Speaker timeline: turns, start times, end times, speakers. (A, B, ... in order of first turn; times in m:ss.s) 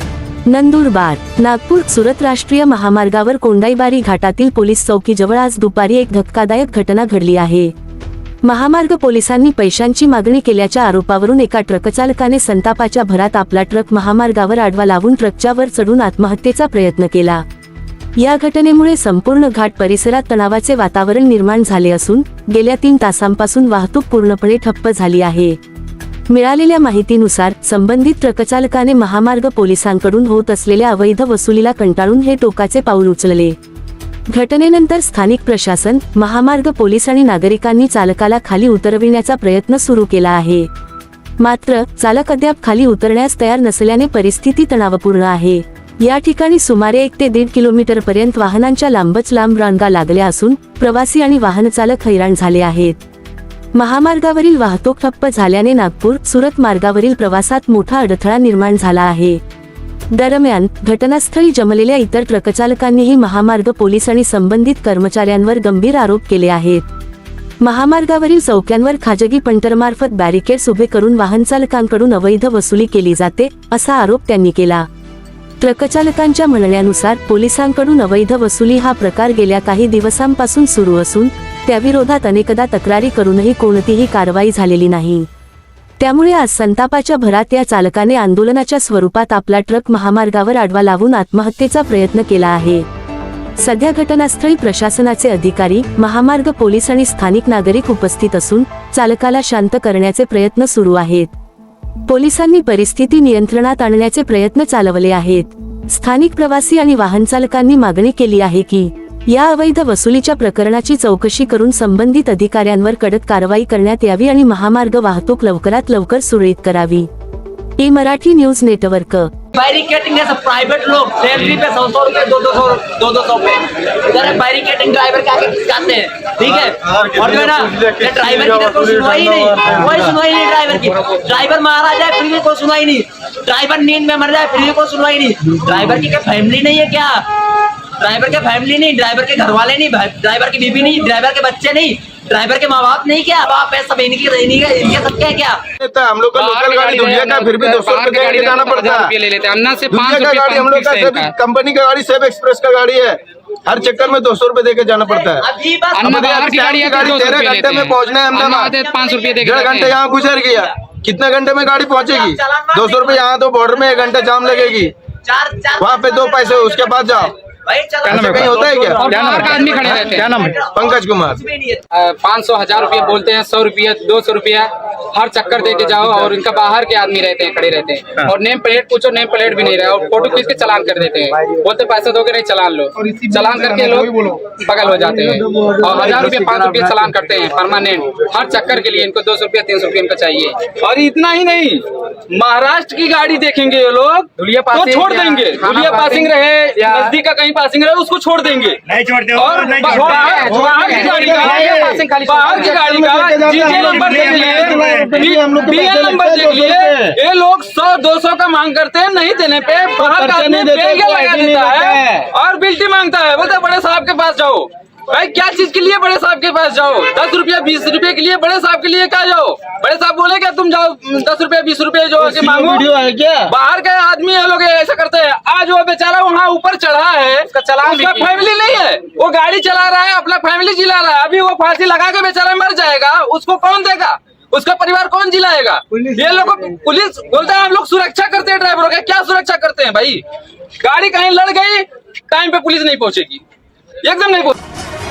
0:00.5-0:07.7 A
0:08.4-0:17.4 A
0:18.2-0:25.6 A
0:26.3-0:33.6 A
0:34.3-0:40.7 A
0:41.4-0:53.0 A
0:53.8-0:59.4 A
1:00.1-1:06.9 A
1:07.6-1:14.9 A
1:15.6-1:25.3 A
1:26.0-1:32.9 A
1:33.6-1:41.3 A
1:42.1-1:57.1 A
1:57.8-1:59.3 A
1:59.5-2:17.2 B
2:07.1-2:09.4 C
2:18.0-2:25.6 B
2:25.8-2:29.1 C
2:26.3-2:31.3 D
2:29.9-2:35.5 C
2:35.0-2:36.1 B
2:35.9-2:40.0 D
2:36.0-2:38.8 C
2:37.0-2:39.4 B
2:39.4-2:44.9 C
2:40.0-2:40.7 B
2:41.7-2:51.8 B
2:45.8-2:47.3 C
2:48.0-2:49.1 C
2:49.0-2:50.4 D
2:50.7-2:51.4 C
2:51.9-3:10.6 D
3:10.8-3:18.8 E
3:14.4-3:17.2 D
3:19.3-3:42.9 E
3:19.7-3:23.0 D
3:20.4-3:22.0 C
3:22.8-3:27.2 C
3:30.1-3:32.2 C
3:42.2-3:43.5 C
3:43.5-4:00.2 E
3:47.5-3:48.4 D
4:00.8-4:03.4 E
4:04.0-4:04.6 E